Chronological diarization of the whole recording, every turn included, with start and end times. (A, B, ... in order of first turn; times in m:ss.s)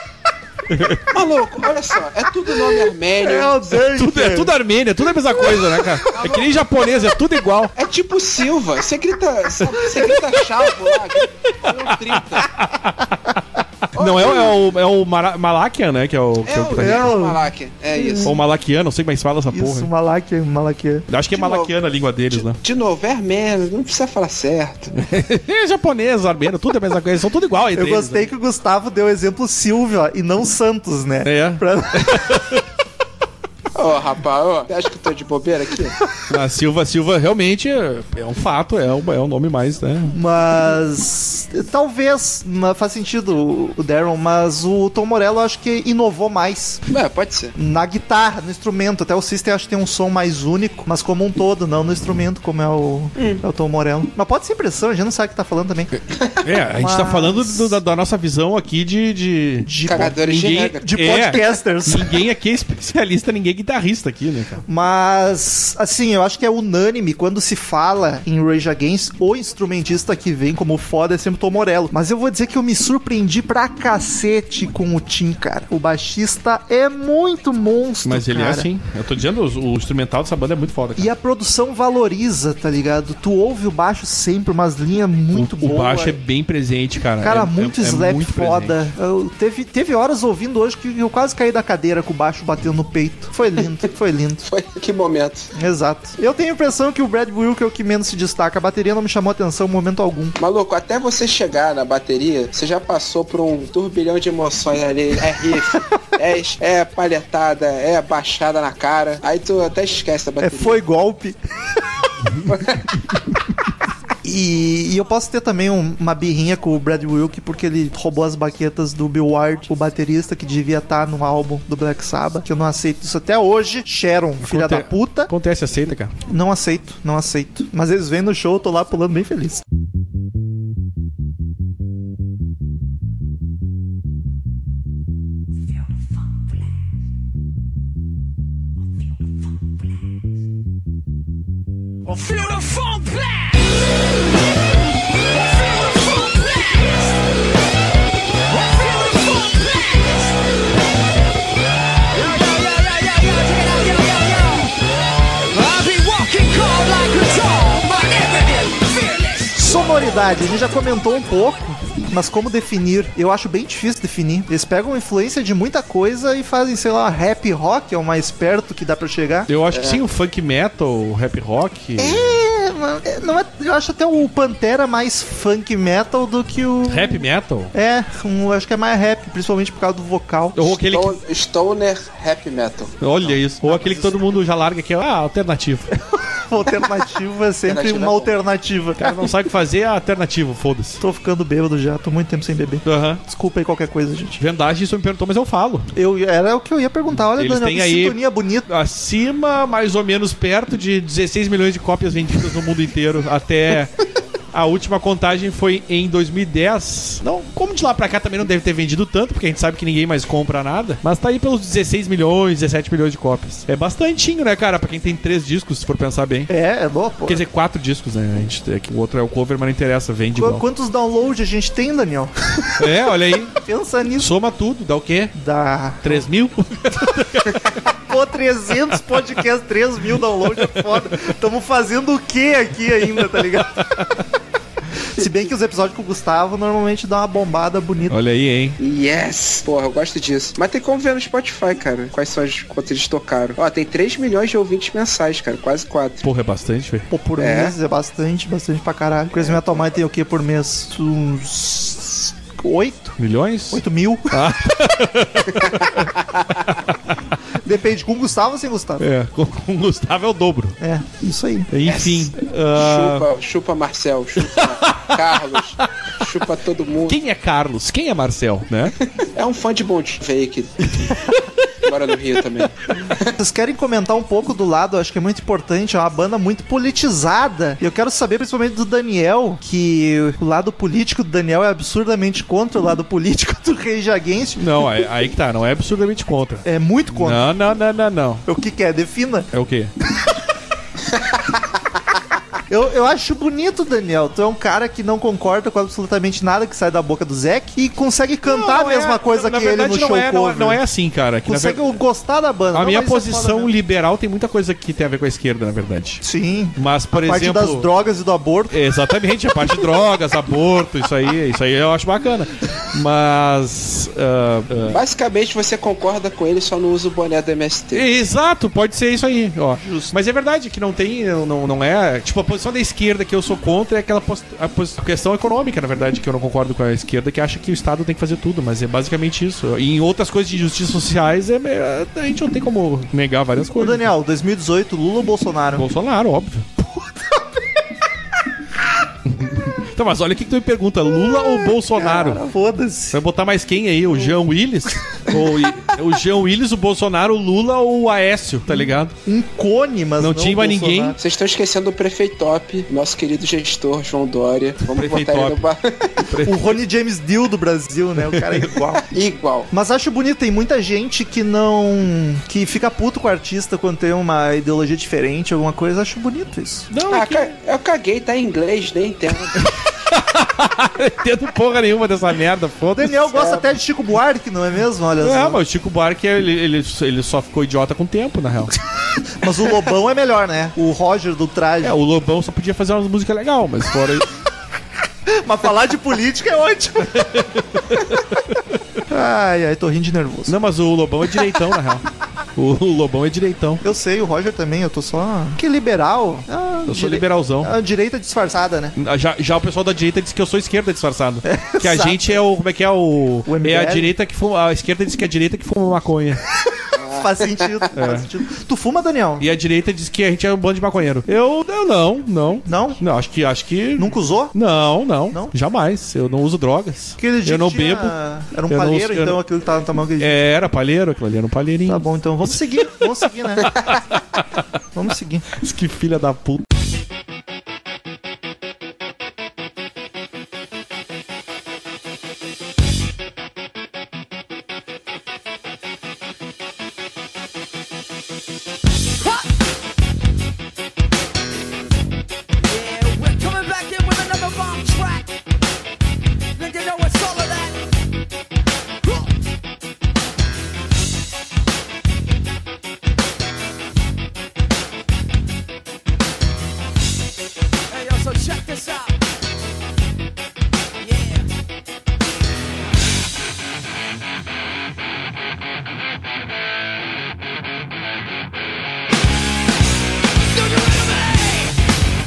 0:00.7-0:01.1 A
0:01.1-0:03.6 B
0:03.2-0:04.5 C
0:03.9-0:07.7 A
0:06.1-0:06.7 B
0:07.8-0:12.5 B
0:11.7-0:13.4 A
0:13.9-0:17.1 A
0:14.0-0:14.6 B
0:16.5-0:18.4 B
0:16.8-0:18.4 C
0:18.2-0:19.9 A
0:19.5-0:21.1 C
0:21.1-0:22.6 A
0:21.3-0:21.8 B
0:22.3-0:25.0 B
0:25.0-0:28.3 A
0:27.8-0:32.4 C
0:31.2-0:32.6 A
0:33.8-0:36.0 B
0:36.3-0:40.2 A
0:40.1-0:46.8 C
0:46.9-0:47.6 B
0:47.6-0:55.9 C
0:53.2-0:53.4 B
0:56.4-1:04.6 A
0:56.8-0:57.8 C
0:59.6-1:00.2 C
0:59.9-1:01.5 B
1:00.8-1:02.2 C
1:04.7-1:18.7 C
1:18.0-1:21.1 A
1:21.0-1:26.2 C
1:25.3-1:28.9 A
1:27.2-1:34.4 C
1:34.4-1:35.5 B
1:35.6-1:40.4 C
1:40.4-1:50.8 B
1:50.4-1:51.4 C
1:52.5-1:52.9 B
1:54.2-2:05.3 C
2:04.4-2:06.1 A
2:06.3-2:09.6 C
2:22.1-2:23.8 D
2:25.2-2:27.2 D
2:28.5-2:30.4 D
2:32.1-2:34.8 D
2:35.5-2:39.6 D
2:39.5-2:49.5 C
2:49.5-2:52.2 A
2:49.7-2:50.0 B
2:52.0-3:00.8 C
2:56.9-2:57.7 A
3:00.6-3:01.2 A
3:00.9-3:03.1 B
3:03.0-3:05.9 A
3:03.3-3:04.2 C
3:06.1-3:09.2 C
3:07.7-3:08.3 B
3:09.0-3:11.0 A
3:11.0-3:14.4 C
3:12.8-3:13.2 A
3:14.4-3:15.9 A
3:16.0-3:18.7 C
3:17.2-3:23.9 A
3:24.5-3:36.5 A
3:36.5-3:37.4 C
3:37.3-3:40.6 A
3:40.4-3:42.9 C
3:42.8-3:43.5 A
3:43.5-3:44.3 C
3:44.2-3:45.3 A
3:45.3-3:46.3 C
3:46.0-3:47.8 A
3:47.8-3:53.7 C
3:53.3-3:54.2 A
3:55.1-3:58.2 C
3:58.1-3:58.8 A
3:58.8-4:06.2 B
4:06.2-4:07.1 A
4:07.1-4:13.2 C
4:07.4-4:07.7 B
4:13.2-4:16.1 A
4:13.7-4:14.5 C
4:15.6-4:16.5 B
4:16.7-4:17.2 A
4:17.6-4:19.0 C
4:19.0-4:20.8 A
4:20.8-4:21.7 C
4:21.7-4:23.3 A
4:21.9-4:27.2 B
4:24.4-4:26.2 A
4:27.1-4:28.9 A
4:29.0-4:30.9 B
4:30.8-4:31.7 A
4:31.8-4:33.4 B
4:33.3-4:44.6 C
4:44.6-4:48.4 A
4:46.6-4:47.5 C
4:48.5-4:49.5 C
4:49.5-4:49.9 A
4:52.7-5:00.8 C
4:58.5-5:01.8 A
5:01.4-5:03.7 C
5:02.7-5:06.2 A
5:06.2-5:08.8 C
5:06.8-5:07.9 A
5:08.7-5:15.0 A
5:14.9-5:18.1 B
5:17.9-5:34.1 A
5:19.8-5:20.2 C
5:33.8-5:35.9 C
5:35.8-5:36.7 A
5:36.8-5:37.4 C
5:39.3-5:42.4 A
5:41.3-5:43.2 C
5:43.1-5:49.1 A
5:49.2-5:51.2 C
5:50.2-5:51.2 A
5:51.2-5:56.2 B
5:54.8-5:55.7 A
5:56.2-5:56.7 A
5:56.4-5:59.0 C
5:58.3-5:58.7 A
5:59.1-5:59.7 B
5:59.7-6:06.9 C
6:06.9-6:07.5 A
6:07.1-6:09.6 B
6:09.6-6:13.3 A
6:13.0-6:15.6 C
6:13.4-6:13.6 B
6:15.2-6:18.7 A
6:19.4-6:22.0 C
6:21.8-6:24.3 A
6:25.3-6:27.3 C
6:27.1-6:29.0 A
6:29.1-6:30.6 C
6:30.5-6:33.8 A
6:33.8-6:39.0 C
6:36.9-6:37.7 A
6:39.0-6:46.4 A
6:41.4-6:42.4 C
6:43.5-6:44.1 C
6:46.9-6:47.9 B
6:47.1-6:49.5 C
6:47.9-6:48.3 A
6:49.4-6:58.2 A
6:52.7-6:53.0 C
6:54.0-6:54.6 C
6:57.2-7:00.4 C
6:58.7-6:59.4 A
7:00.2-7:03.0 A
7:01.9-7:03.7 C
7:03.9-7:04.6 A
7:04.9-7:05.5 C
7:05.6-7:06.7 A
7:19.2-7:19.5 D
7:22.6-7:25.3 D
7:26.6-7:27.8 D
7:29.0-7:29.3 D
7:37.9-7:39.2 D
7:41.0-7:41.5 D
7:50.6-7:51.7 D